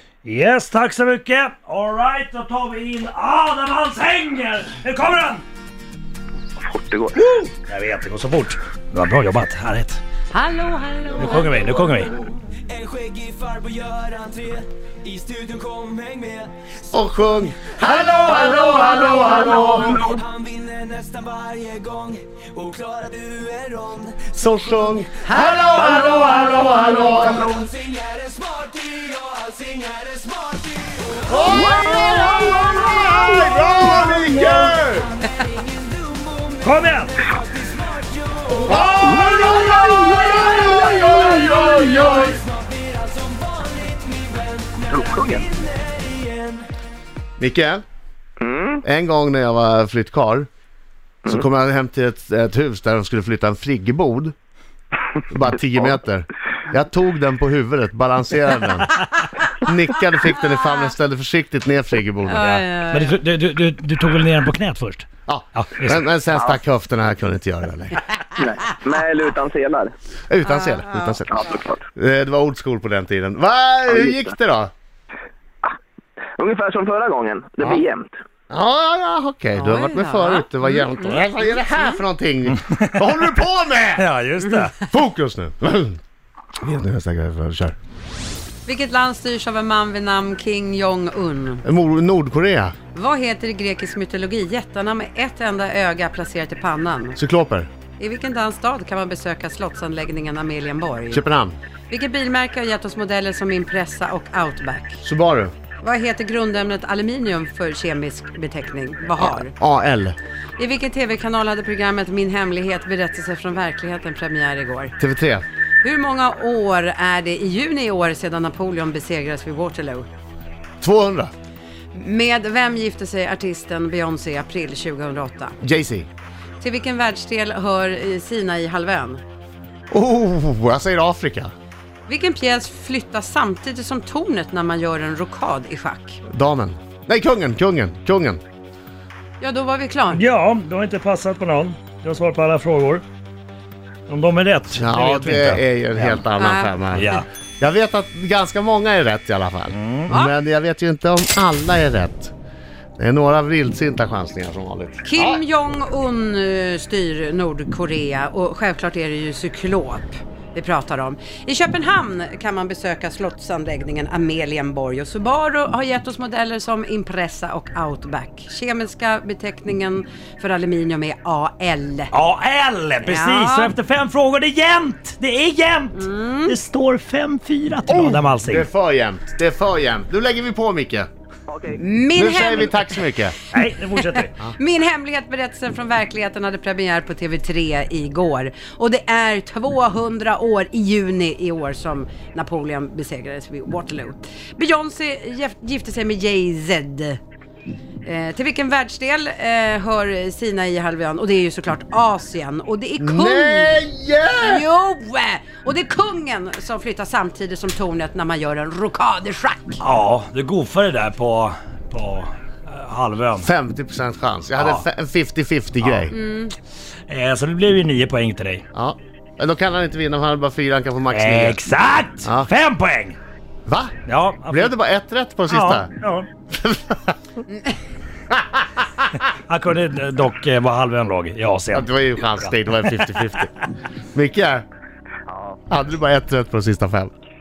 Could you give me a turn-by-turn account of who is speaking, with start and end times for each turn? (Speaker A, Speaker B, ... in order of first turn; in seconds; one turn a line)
Speaker A: 0.2-5.4
Speaker B: 6.6-7.2
Speaker A: 7.2-10.0
Speaker C: 10.3-11.7
Speaker A: 11.2-12.1
Speaker D: 12.9-14.6
Speaker D: 15.3-16.5
Speaker E: 16.9-20.1
Speaker B: 19.6-20.2
Speaker D: 20.4-24.1
Speaker E: 24.2-27.6
Speaker C: 25.3-25.6
Speaker B: 27.1-27.7
Speaker D: 28.0-30.9
Speaker E: 31.2-35.1
Speaker B: 31.5-32.6
Speaker A: 36.6-37.2
Speaker E: 38.5-42.4
Speaker B: 39.0-40.4
Speaker D: 40.4-42.2
Speaker D: 42.9-44.8
Speaker B: 44.9-45.5
Speaker D: 45.6-46.4
Speaker E: 47.4-47.8
Speaker B: 48.4-48.8
Speaker E: 48.8-50.5
Speaker E: 51.3-54.3
Speaker E: 55.3-59.0
Speaker E: 59.6-62.5
Speaker C: 62.2-63.2
Speaker A: 62.4-66.1
Speaker E: 65.3-68.1
Speaker B: 68.4-69.9
Speaker E: 70.3-71.4
Speaker C: 70.4-71.2
Speaker B: 71.3-71.8
Speaker E: 72.0-74.7
Speaker B: 73.9-74.2
Speaker B: 76.4-78.2
Speaker E: 78.5-84.1
Speaker C: 79.5-82.0
Speaker A: 82.5-83.0
Speaker A: 84.0-84.9
Speaker E: 84.8-86.0
Speaker E: 86.6-87.8
Speaker C: 88.7-91.7
Speaker E: 91.7-92.7
Speaker C: 92.9-97.2
Speaker E: 97.2-97.7
Speaker C: 98.0-101.2
Speaker E: 101.1-101.6
Speaker C: 101.9-105.0
Speaker E: 105.0-105.5
Speaker C: 105.8-109.5
Speaker E: 109.2-110.2
Speaker C: 110.6-114.9
Speaker E: 115.0-115.4
Speaker C: 115.8-120.1
Speaker E: 120.8-121.3
Speaker C: 121.9-125.6
Speaker E: 125.6-126.1
Speaker C: 126.6-129.2
Speaker E: 129.9-131.5
Speaker C: 132.1-136.2
Speaker E: 136.3-138.4
Speaker C: 139.4-140.2
Speaker A: 140.1-143.0
Speaker A: 144.1-146.2
Speaker E: 144.8-152.3
Speaker C: 146.4-147.2
Speaker A: 146.9-147.3
Speaker A: 149.7-150.1
Speaker C: 150.1-150.3
Speaker E: 153.0-155.4
Speaker C: 155.1-172.1
Speaker A: 172.1-178.7
Speaker C: 173.0-173.8
Speaker C: 175.9-176.6
Speaker E: 177.9-181.1
Speaker B: 181.5-181.8
Speaker C: 181.8-183.0
Speaker E: 182.2-183.3
Speaker A: 183.5-184.4
Speaker C: 184.0-197.2
Speaker C: 198.0-203.8
Speaker E: 203.0-204.7
Speaker C: 204.4-209.8
Speaker A: 209.8-213.5
Speaker E: 213.4-216.1
Speaker A: 214.6-214.8
Speaker A: 215.8-216.1
Speaker C: 216.1-216.5
Speaker A: 217.1-218.7
Speaker E: 218.7-221.6
Speaker A: 221.1-223.2
Speaker E: 222.2-222.5
Speaker E: 223.7-223.9
Speaker A: 224.1-224.7
Speaker E: 224.5-225.9
Speaker A: 225.5-226.3
Speaker E: 226.5-227.2
Speaker E: 228.3-228.6
Speaker A: 229.5-233.2
Speaker E: 231.7-233.5
Speaker E: 234.1-234.6
Speaker B: 235.3-235.6
Speaker E: 235.7-237.1